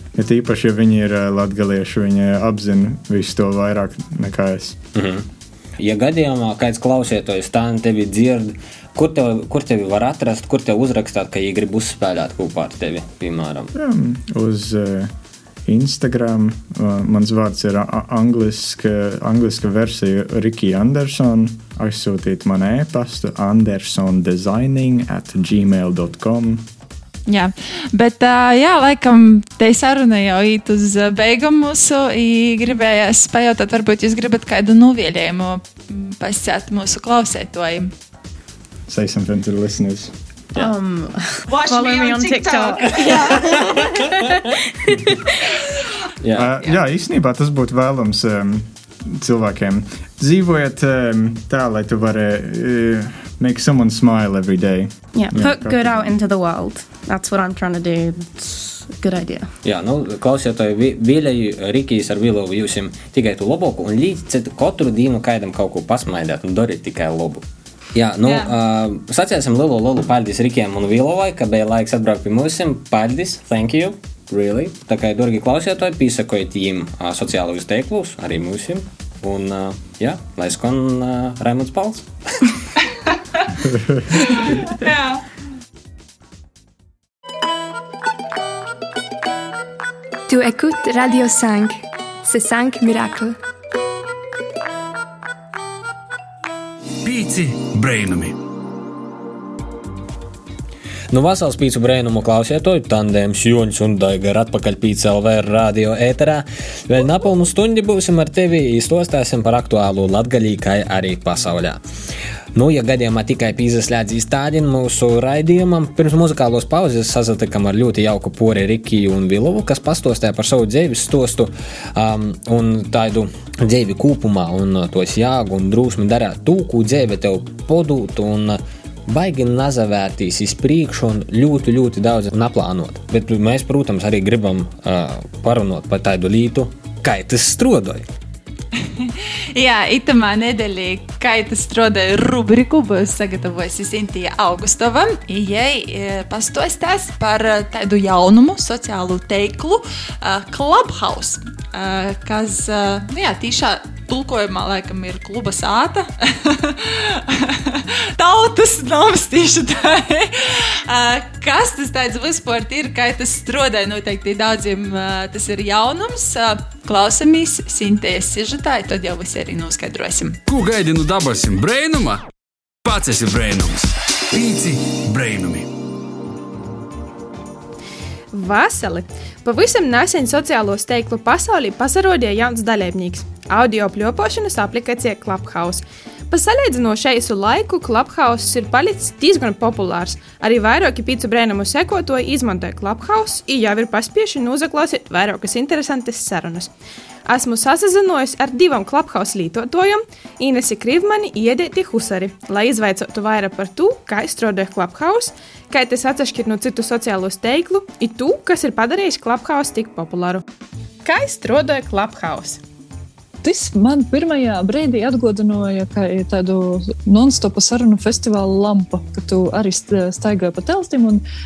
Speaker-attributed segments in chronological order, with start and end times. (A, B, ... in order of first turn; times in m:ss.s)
0:00.2-0:04.8 A
0:05.0-0:05.2 B
0:05.8-0:13.7 B
0:13.8-0:15.1 A
0:15.7-0:26.6 A
0:27.3-0:37.9 C
0:38.9-0:40.1 A
0:40.6-0:43.9 D
0:41.5-0:43.4 E
0:44.9-0:45.1 D
0:46.2-0:46.5 B
0:46.4-0:56.1 A
0:55.2-0:59.5 D
0:59.6-1:07.4 B
1:07.9-1:22.5 B
1:23.7-1:24.3 A
1:24.7-1:25.2 E
1:30.3-1:33.4 F
1:37.0-1:38.4 G
1:41.1-1:51.8 B
1:52.5-2:18.1 B
2:18.8-2:50.4 C
2:50.5-2:52.2 G
2:52.8-2:55.7 G
2:58.3-3:16.7 H
3:17.3-3:30.4 H
3:31.0-3:32.6 H
3:33.4-3:41.2 I